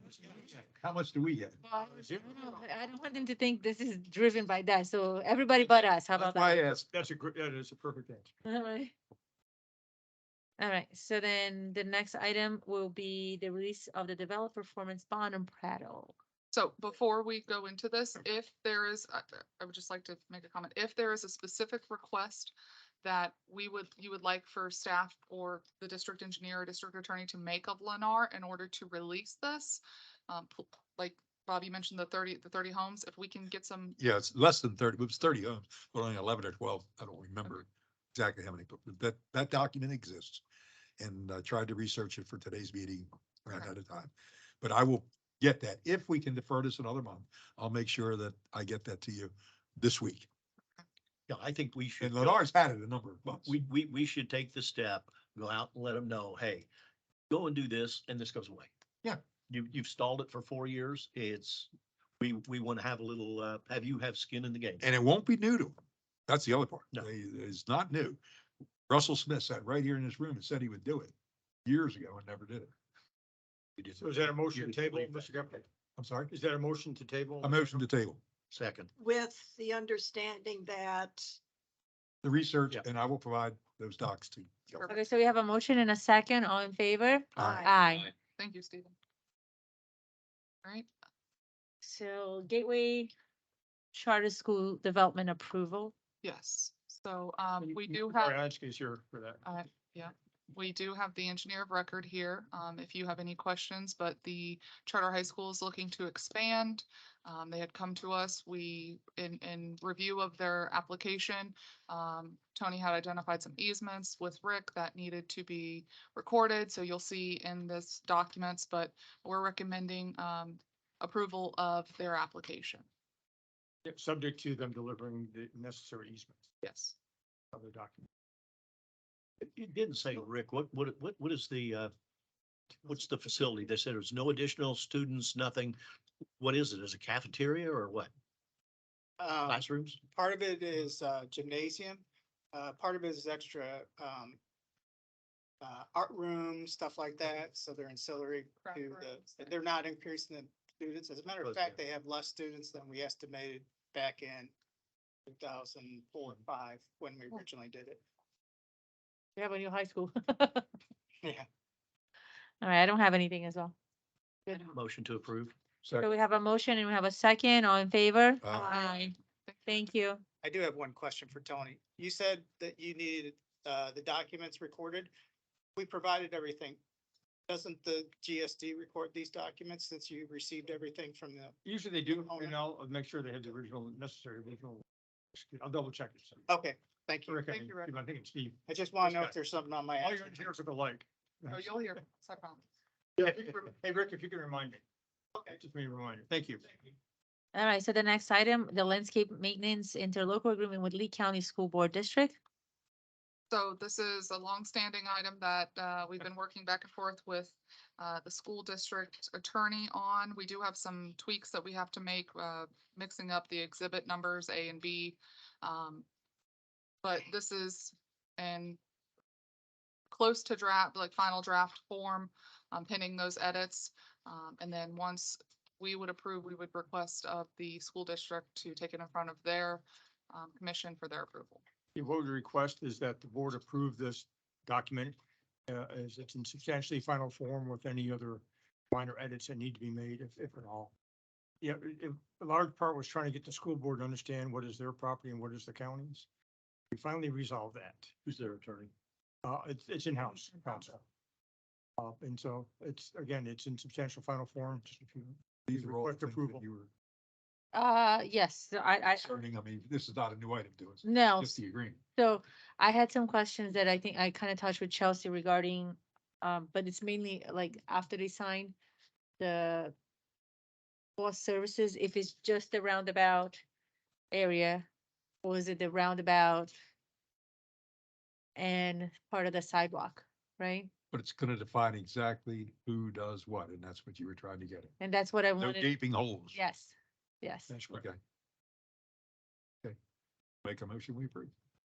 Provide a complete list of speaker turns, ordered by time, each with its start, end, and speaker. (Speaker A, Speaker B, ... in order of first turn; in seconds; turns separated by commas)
Speaker A: 0.2-1.6, Speaker B: 1.6-6.7, Speaker C: 1.8-2.6, Speaker A: 6.2-6.8, Speaker C: 6.7-8.3, Speaker B: 8.4-8.9, Speaker B: 10.6-16.1, Speaker D: 16.5-34.0, Speaker A: 34.0-40.4, Speaker A: 41.0-50.3, Speaker E: 51.3-52.4, Speaker A: 52.0-53.5, Speaker E: 53.4-56.7, Speaker E: 57.3-58.7, Speaker E: 59.5-64.8, Speaker A: 64.8-68.2, Speaker A: 68.9-71.1, Speaker A: 71.6-72.7, Speaker E: 73.8-75.3, Speaker C: 74.0-75.6, Speaker A: 76.0-76.3, Speaker C: 76.3-77.8, Speaker A: 77.4-78.2, Speaker E: 78.5-78.9, Speaker F: 79.0-81.4, Speaker A: 82.2-84.9, Speaker B: 84.9-88.1, Speaker F: 87.3-87.8, Speaker A: 87.3-87.7, Speaker D: 88.4-88.9, Speaker B: 91.8-93.1, Speaker B: 93.9-95.9, Speaker D: 96.2-98.4, Speaker C: 97.6-99.4, Speaker D: 99.4-122.8, Speaker C: 123.8-126.5, Speaker D: 126.6-126.9, Speaker C: 127.5-128.1, Speaker E: 129.4-131.9, Speaker E: 132.8-135.8, Speaker E: 136.4-138.1, Speaker G: 139.2-144.4, Speaker E: 139.4-140.0, Speaker G: 145.6-154.5, Speaker D: 148.6-149.5, Speaker E: 151.4-151.8, Speaker G: 155.3-158.0, Speaker B: 159.3-160.7, Speaker B: 162.6-163.7, Speaker E: 164.7-165.5, Speaker A: 165.8-166.1, Speaker B: 166.0-169.1, Speaker A: 168.4-168.7, Speaker F: 168.5-168.9, Speaker D: 169.0-169.9, Speaker B: 169.6-170.2, Speaker G: 170.4-175.1, Speaker G: 175.8-176.8, Speaker G: 177.5-182.5, Speaker C: 181.6-186.5, Speaker G: 186.5-187.9, Speaker C: 187.3-189.3, Speaker G: 188.7-190.4, Speaker C: 190.0-191.6, Speaker D: 191.5-192.6, Speaker C: 193.2-194.8, Speaker C: 195.6-196.7, Speaker B: 197.5-202.4, Speaker D: 203.5-216.1, Speaker D: 217.0-218.8, Speaker D: 220.1-231.6, Speaker C: 231.9-235.2, Speaker C: 235.7-240.9, Speaker C: 241.6-246.2, Speaker C: 246.9-248.1, Speaker E: 248.2-248.9, Speaker C: 249.4-251.0, Speaker C: 252.0-256.6, Speaker A: 255.7-256.9, Speaker B: 257.7-259.3, Speaker A: 259.1-262.0, Speaker B: 261.0-261.6, Speaker B: 262.1-268.7, Speaker B: 269.4-269.9, Speaker B: 271.2-273.6, Speaker B: 274.3-274.9, Speaker B: 275.4-276.7, Speaker B: 278.6-280.9, Speaker A: 281.1-284.9, Speaker B: 285.0-287.8, Speaker A: 285.6-286.6, Speaker C: 287.7-288.0, Speaker A: 287.9-288.2, Speaker A: 290.6-291.5